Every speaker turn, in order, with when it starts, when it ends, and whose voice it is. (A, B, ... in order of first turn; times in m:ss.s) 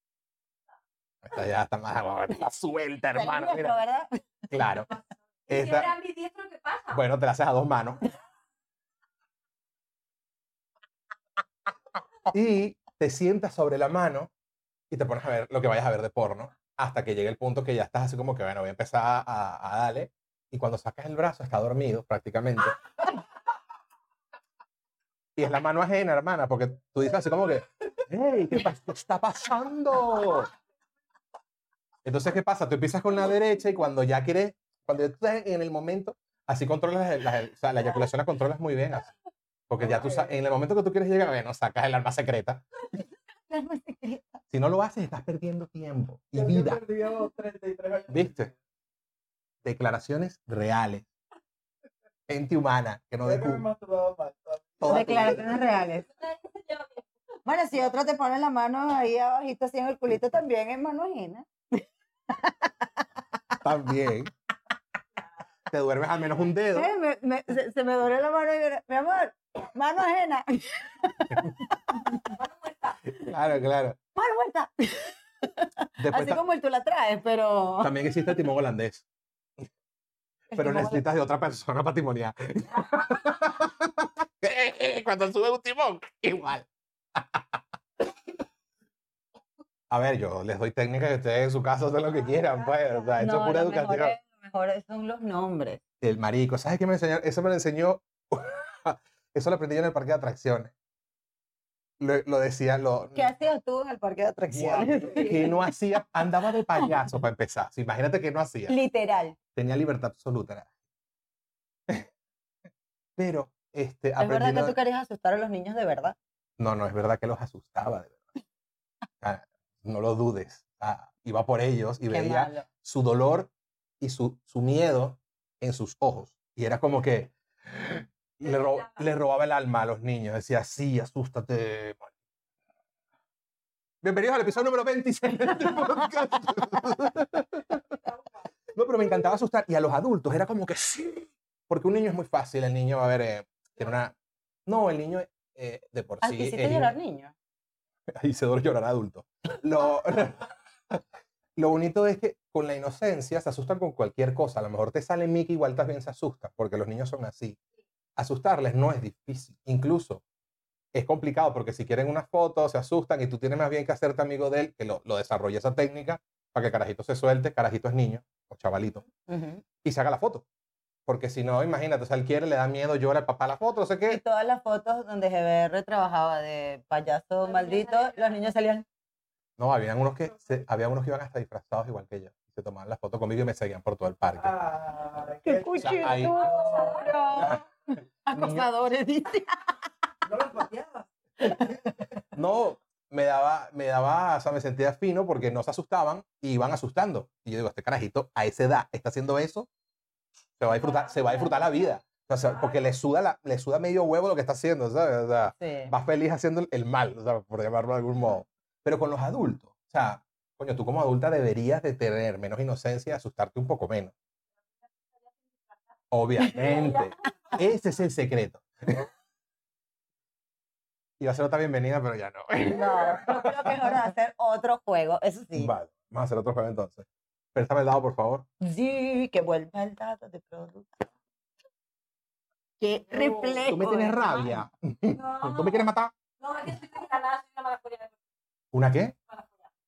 0:01.2-0:03.7 A
0:03.1-0:04.2 B
0:04.5-0:04.9 A
0:05.5-0:07.0 C
0:05.5-0:05.9 A
0:06.9-0:08.0 A
0:12.3-0:14.3 A
0:14.9-0:22.8 A
0:25.4-0:30.5 A
0:32.0-0:39.1 A
0:39.7-0:42.6 A
0:39.8-0:40.4 D
0:43.5-0:44.4 B
0:44.5-0:46.8 A
0:46.3-0:48.5 D
0:48.1-0:48.5 A
0:49.6-0:51.0 A
0:52.3-0:53.6 A
0:53.2-0:55.4 D
0:54.8-0:55.4 A
0:54.9-0:56.1 B
0:56.1-0:57.0 C
0:57.4-1:02.9 B
1:03.6-1:04.3 A
1:05.7-1:06.9 A
1:06.7-1:12.1 B
1:12.2-1:13.0 C
1:13.1-1:14.0 A
1:14.2-1:17.9 B
1:16.0-1:16.4 A
1:17.8-1:19.0 A
1:20.5-1:21.0 B
1:20.5-1:27.4 A
1:29.9-1:34.1 A
1:32.2-1:32.9 C
1:33.2-1:35.8 B
1:36.0-1:40.7 A
1:42.0-1:43.3 A
1:43.1-1:45.5 B
1:44.6-1:45.3 D
1:44.6-1:48.7 A
1:48.7-1:49.4 B
1:49.5-1:50.7 A
1:53.2-1:54.8 A
1:54.2-1:56.2 B
1:56.6-1:58.2 A
1:59.2-2:12.1 A
2:02.1-2:02.7 B
2:08.4-2:09.0 C
2:14.0-2:17.8 A
2:18.7-2:24.1 A
2:24.6-2:26.9 A
2:26.2-2:27.3 B
2:28.1-2:30.5 A
2:31.6-2:37.6 A
2:38.2-2:40.2 A
2:40.9-2:49.0 A
2:49.3-2:49.6 B
2:49.8-2:50.4 A
2:51.1-2:54.2 A
2:54.1-2:58.8 B
2:57.4-2:58.4 C
2:59.6-3:04.6 A
3:04.4-3:07.1 D
3:05.4-3:07.6 B
3:05.8-3:06.5 A
3:06.3-3:07.2 C
3:07.3-3:07.6 A
3:08.2-3:09.8 B
3:08.3-3:08.7 A
3:10.2-3:11.7 D
3:12.3-3:19.7 A
3:20.6-3:34.1 A
3:20.7-3:22.8 C
3:25.6-3:25.9 B
3:36.1-3:39.0 A
3:36.5-3:37.6 C
3:41.2-3:43.7 A
3:42.6-3:45.7 B
3:45.5-3:48.5 A
3:48.6-3:51.1 B
3:52.8-3:54.3 B
3:53.2-3:53.5 C
3:53.6-3:56.1 A
3:54.2-3:54.5 C
3:55.1-3:58.2 C
3:58.7-3:59.1 A
3:59.3-3:59.7 C